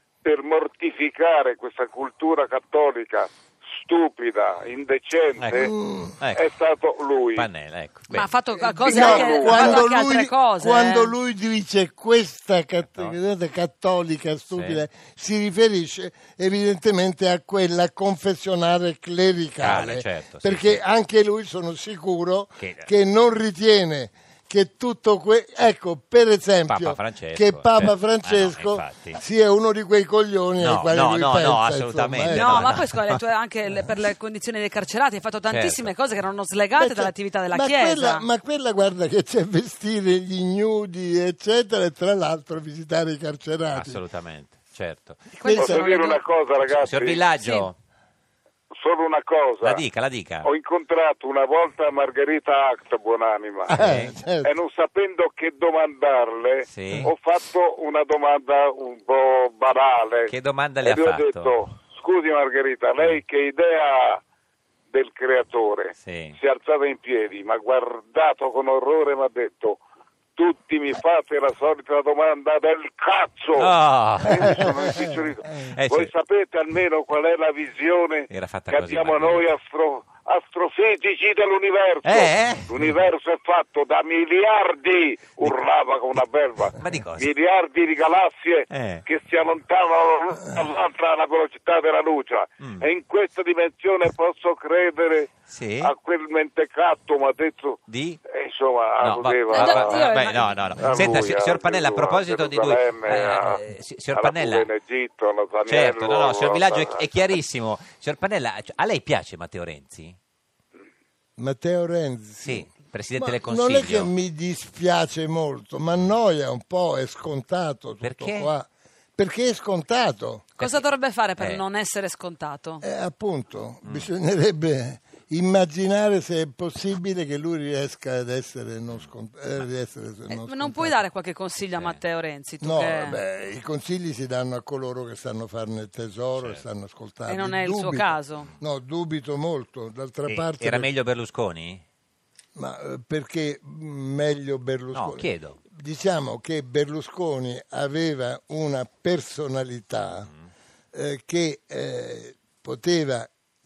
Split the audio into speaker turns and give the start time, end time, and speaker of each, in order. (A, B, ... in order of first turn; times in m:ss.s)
0:00.2-0:05.7 A
0:05.4-0:06.5 B
0:05.6-0:06.2 C
0:06.3-0:07.5 A
0:07.4-0:08.3 B
0:08.1-0:11.2 D
0:08.6-0:09.7 A
0:08.8-0:32.8 C
0:14.5-0:14.8 B
0:19.6-0:20.8 B
0:22.6-0:22.9 B
0:26.7-0:29.2 B
0:30.6-0:33.2 B
0:32.3-0:38.3 D
0:35.5-0:35.9 B
0:36.8-0:44.0 C
0:43.7-0:45.2 B
0:45.4-0:46.2 D
0:45.4-0:45.9 C
0:45.6-0:47.2 A
0:46.7-0:47.8 B
0:47.4-0:47.7 D
0:48.8-0:49.8 A
0:49.6-0:50.5 B
0:50.4-0:53.7 A
0:53.7-0:54.5 C
0:53.7-0:54.2 B
0:54.4-1:04.2 A
0:56.7-0:57.1 B
1:00.3-1:01.6 B
1:04.9-1:09.8 A
1:06.0-1:06.4 B
1:10.4-1:13.7 A
1:13.6-1:14.7 B
1:14.2-1:40.1 A
1:14.6-1:15.2 C
1:15.7-1:16.1 B
1:18.3-1:19.4 B
1:22.0-1:22.8 B
1:26.8-1:27.3 B
1:28.7-1:29.0 B
1:35.5-1:35.9 B
1:37.9-1:38.2 B
1:39.0-1:44.7 B
1:39.5-1:41.0 D
1:40.8-1:43.6 A
1:44.1-1:47.1 A
1:45.7-1:50.2 B
1:51.4-2:00.5 C
1:52.4-1:54.1 B
1:58.0-1:58.5 B
2:00.6-2:02.8 D
2:01.4-2:01.6 B
2:02.8-2:11.0 C
2:03.8-2:04.1 B
2:10.3-2:13.2 D
2:12.6-2:20.9 C
2:16.4-2:16.6 B
2:17.3-2:18.5 D
2:20.3-2:21.8 B
2:22.6-2:30.3 C
2:24.9-2:25.6 B
2:30.9-2:33.3 C